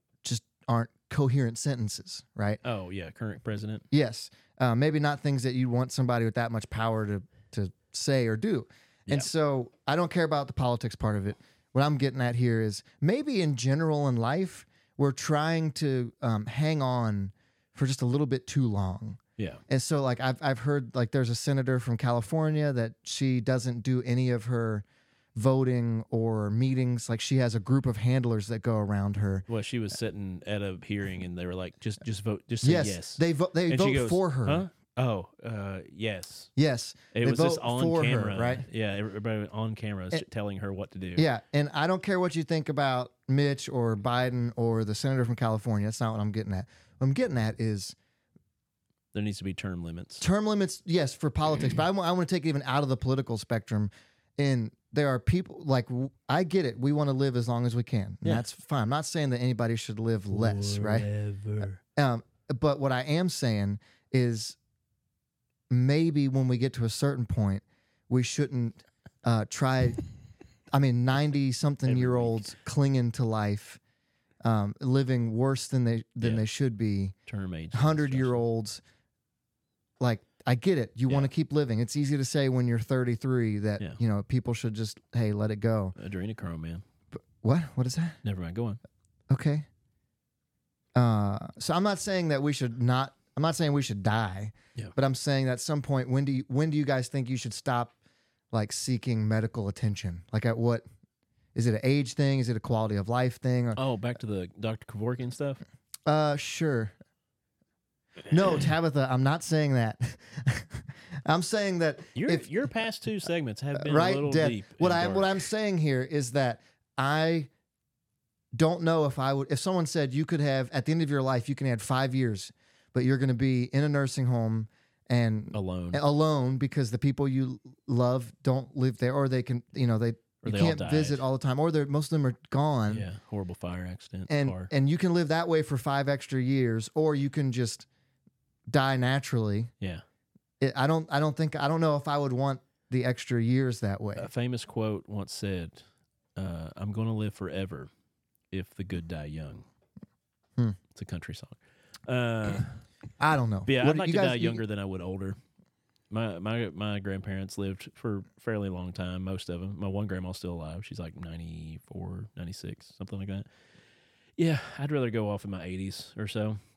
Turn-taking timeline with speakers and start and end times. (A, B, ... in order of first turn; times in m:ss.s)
0:00.2-0:02.6 A
0:02.6-0:03.8 B
0:03.9-0:24.8 A
0:25.3-0:29.4 A
0:29.5-0:36.5 B
0:32.6-0:34.6 A
0:36.6-0:38.7 A
0:37.1-0:41.2 B
0:41.2-0:48.0 A
0:49.1-0:50.2 B
0:50.2-1:01.1 A
1:00.3-1:01.8 B
1:02.0-1:04.6 A
1:05.7-1:10.0 A
1:10.7-1:13.8 A
1:11.8-1:12.5 B
1:14.4-1:17.2 A
1:17.3-1:18.4 B
1:17.7-1:18.8 A
1:20.0-1:25.9 A
1:26.0-1:26.8 B
1:27.2-1:28.2 A
1:28.2-1:28.8 B
1:29.3-1:29.6 A
1:30.9-1:37.9 A
1:38.5-1:40.8 A
1:41.5-1:43.8 A
1:43.7-1:45.6 B
1:46.0-1:46.9 A
1:48.3-1:52.5 A
1:52.1-1:55.4 B
1:53.7-1:57.5 A
1:58.5-2:13.1 A
2:05.5-2:06.0 B
2:10.4-2:11.2 B
2:12.9-2:14.7 B
2:14.3-2:17.8 A
2:18.7-2:19.7 A
2:20.6-2:24.3 A
2:24.2-2:25.8 B
2:26.4-2:27.9 B
2:28.5-2:29.6 B
2:30.9-2:32.8 B
2:33.2-2:34.6 A
2:33.6-2:35.4 B
2:36.1-2:43.5 B
2:44.4-2:46.6 B